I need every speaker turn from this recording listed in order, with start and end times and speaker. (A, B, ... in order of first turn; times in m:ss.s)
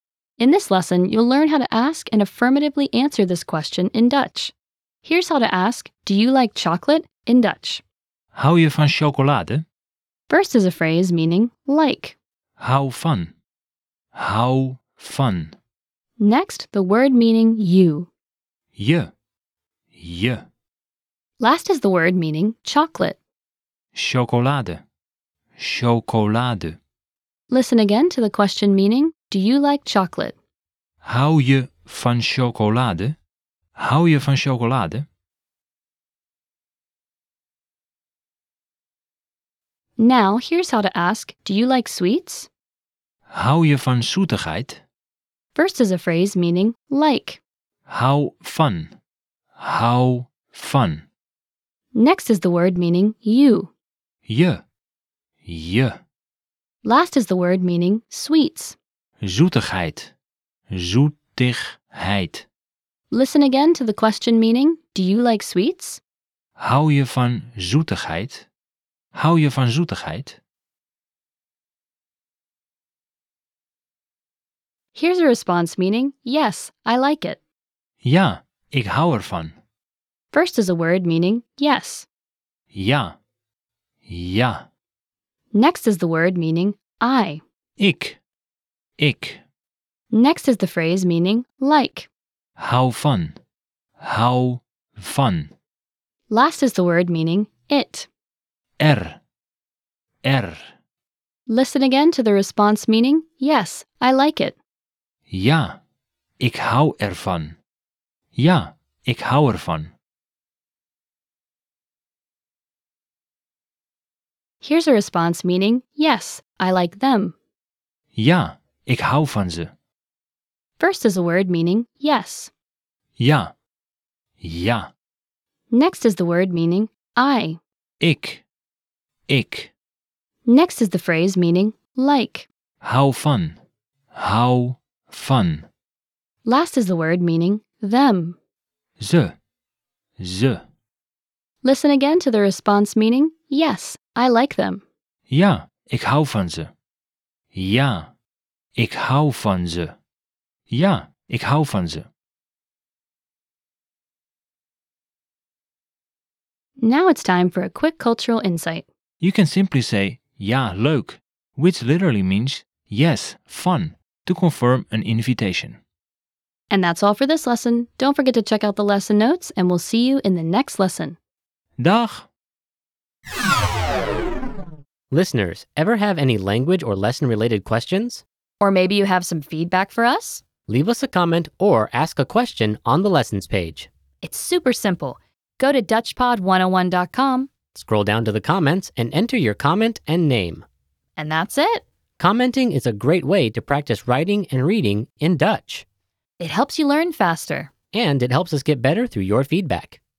0:00.4-0:07.8 A
0:08.3-0:09.6 B
0:10.3-0:12.2 A
0:12.6-0:13.4 B
0:14.2-0:15.6 B
0:16.2-0:18.1 A
0:18.8-0:19.1 B
0:20.0-0:20.4 B
0:21.4-0:23.2 A
0:23.9-0:24.8 B
0:25.6-0:26.8 B
0:27.5-0:30.4 A
0:31.0-0:33.2 B
0:33.8-0:35.0 B
0:40.0-0:42.5 A
0:43.3-0:44.8 B
0:45.6-0:47.4 A
0:47.9-0:49.0 B
0:49.6-0:51.1 B
0:52.0-0:53.7 A
0:54.3-0:54.6 B
0:55.4-0:56.0 B
0:56.8-0:58.8 A
0:59.2-1:00.1 B
1:00.7-1:02.5 B
1:03.1-1:06.0 A
1:06.6-1:08.5 B
1:09.1-1:10.4 B
1:15.0-1:17.4 A
1:18.0-1:19.6 B
1:20.3-1:22.1 A
1:22.7-1:23.2 B
1:24.1-1:24.6 B
1:25.5-1:27.4 A
1:27.8-1:28.2 B
1:29.0-1:29.4 B
1:30.1-1:32.1 A
1:32.6-1:33.4 B
1:34.0-1:35.5 B
1:36.3-1:38.1 A
1:38.8-1:39.2 B
1:40.2-1:40.7 B
1:41.5-1:44.6 A
1:45.3-1:45.8 B
1:46.4-1:47.6 B
1:48.4-1:49.9 B
1:54.6-1:57.4 A
1:58.2-1:59.7 B
2:00.8-2:02.5 A
2:03.2-2:03.5 B
2:04.4-2:04.9 B
2:05.7-2:07.6 A
2:08.0-2:08.4 B
2:09.3-2:09.7 B
2:10.5-2:12.5 A
2:12.8-2:13.6 B
2:14.2-2:15.7 B
2:16.4-2:18.4 A
2:19.0-2:19.3 B
2:20.2-2:20.6 B
2:21.6-2:24.8 A
2:25.3-2:26.7 B
2:27.5-2:28.1 B
2:28.8-2:30.0 B
2:30.7-2:32.1 B
2:36.8-2:38.9 A
2:39.2-2:45.8 B
2:46.7-2:51.2 A
2:51.8-2:52.3 B
2:55.1-2:58.2 C
2:58.6-3:00.4 A
3:00.7-3:03.9 C
3:04.2-3:07.5 A
3:07.7-3:10.6 C
3:11.2-3:11.8 A
3:12.2-3:15.8 C
3:16.4-3:17.7 A
3:17.9-3:20.0 C